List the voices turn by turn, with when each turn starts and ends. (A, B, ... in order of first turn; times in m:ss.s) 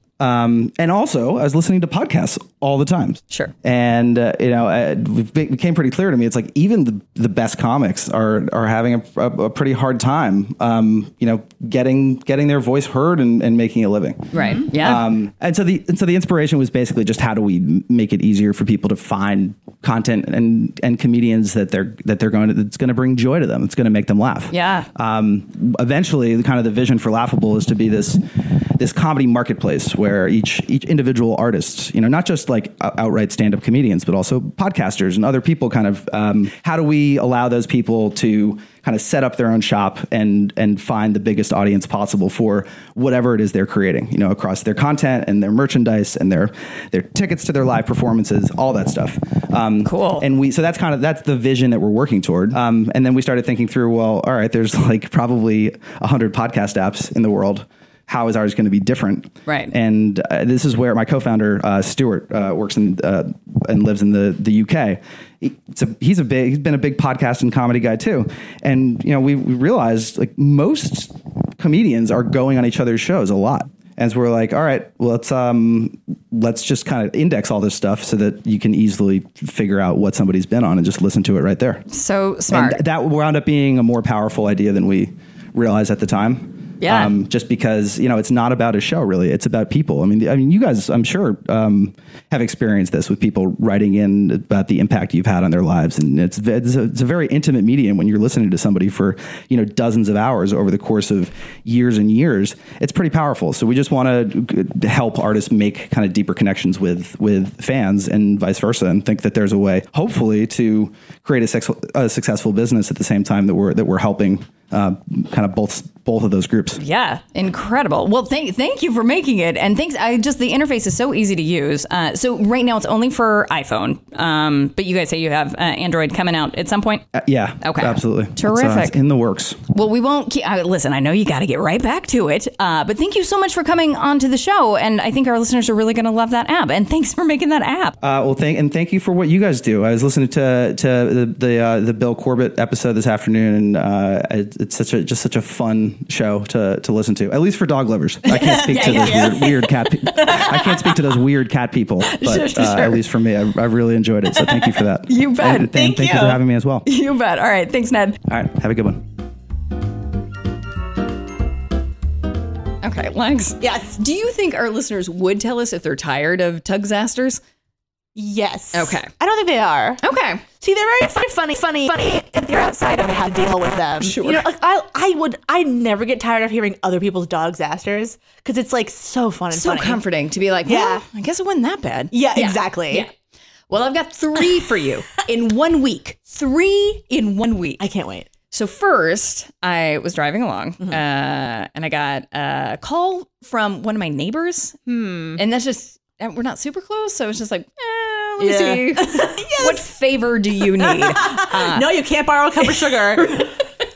0:00.2-1:21.8 A
0:14.3-0:15.0 B
0:24.5-0:24.9 B
0:49.8-0:50.2 B
0:59.4-0:59.7 B
1:21.9-1:22.8 B
1:22.5-1:56.8 A
1:26.8-1:27.1 B
1:56.8-2:07.0 B
2:07.1-2:09.6 A
2:07.6-2:09.0 B
2:09.7-2:18.0 B
2:18.0-2:36.8 A
2:28.3-2:31.0 C
2:32.1-2:33.0 B
2:35.1-2:35.7 B
2:35.7-2:36.4 C
2:36.8-2:38.2 B
2:38.3-2:39.0 A
2:42.8-2:47.4 B
2:43.6-2:44.0 C
2:48.2-2:50.0 C
2:48.7-2:49.1 B
2:50.0-2:50.4 B
2:50.6-3:00.0 C
2:54.0-2:54.4 B
2:59.5-3:03.1 B
3:00.6-3:01.0 C
3:02.1-3:03.1 C
3:03.7-3:07.8 B
3:07.8-3:08.3 C
3:08.5-3:14.8 B
3:14.9-3:15.4 C
3:15.4-3:22.0 B
3:18.4-3:19.9 C
3:20.6-3:23.5 C
3:22.6-3:23.5 B